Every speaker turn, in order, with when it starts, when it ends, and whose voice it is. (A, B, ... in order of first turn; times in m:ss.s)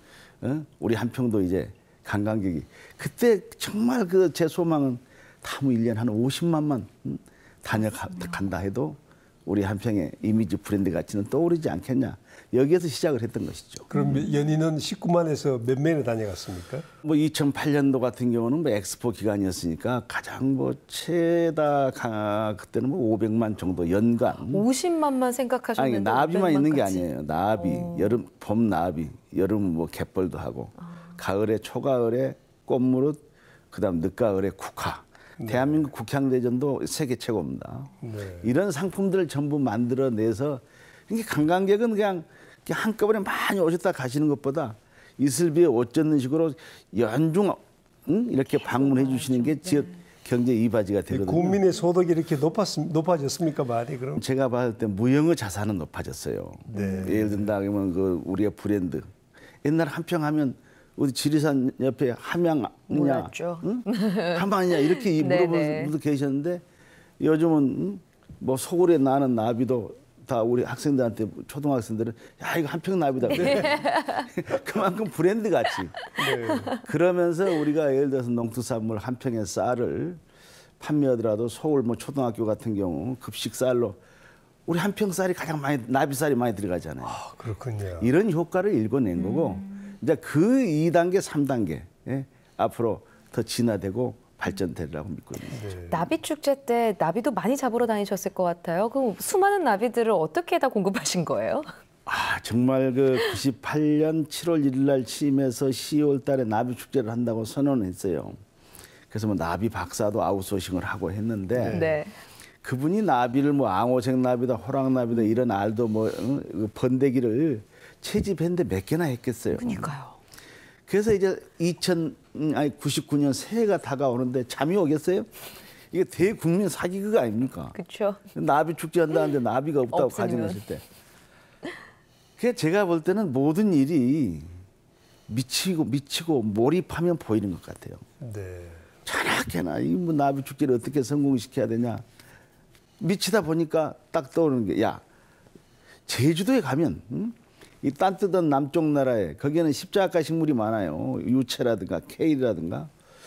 0:00.4-0:13.9 A
0:13.9-0:16.9 B
0:13.9-0:14.4 C
0:17.0-0:24.7 A
0:24.4-0:27.1 C
0:25.8-0:51.6 A
0:27.6-0:28.2 C
0:35.4-0:35.9 B
0:38.0-0:38.5 B
0:48.6-0:50.0 C
0:51.1-0:54.2 B
0:54.2-0:59.1 A
0:56.7-0:57.5 B
0:56.7-0:57.2 C
0:59.6-1:06.6 A
1:02.9-1:05.9 C
1:07.2-1:16.0 A
1:13.3-1:14.3 C
1:13.3-1:13.7 B
1:16.0-1:16.8 C
1:16.2-1:16.8 B
1:16.8-1:20.2 A
1:20.8-1:24.0 A
1:24.7-1:27.2 A
1:27.0-1:28.1 B
1:28.0-1:35.7 A
1:29.2-1:29.8 C
1:35.5-1:36.1 B
1:35.9-1:41.7 C
1:42.1-1:48.4 A
1:49.1-1:51.9 A
1:51.6-1:52.0 B
1:51.7-1:52.1 C
1:52.6-1:59.9 A
1:59.6-2:00.2 C
2:00.9-2:05.3 A
2:05.9-2:07.8 A
2:07.8-2:08.2 C
2:08.3-2:10.8 A
2:09.9-2:10.6 C
2:12.4-2:14.6 A
2:15.3-2:18.0 A
2:18.2-2:18.8 B
2:19.1-2:22.0 A
2:23.0-2:25.0 A
2:26.1-2:32.9 A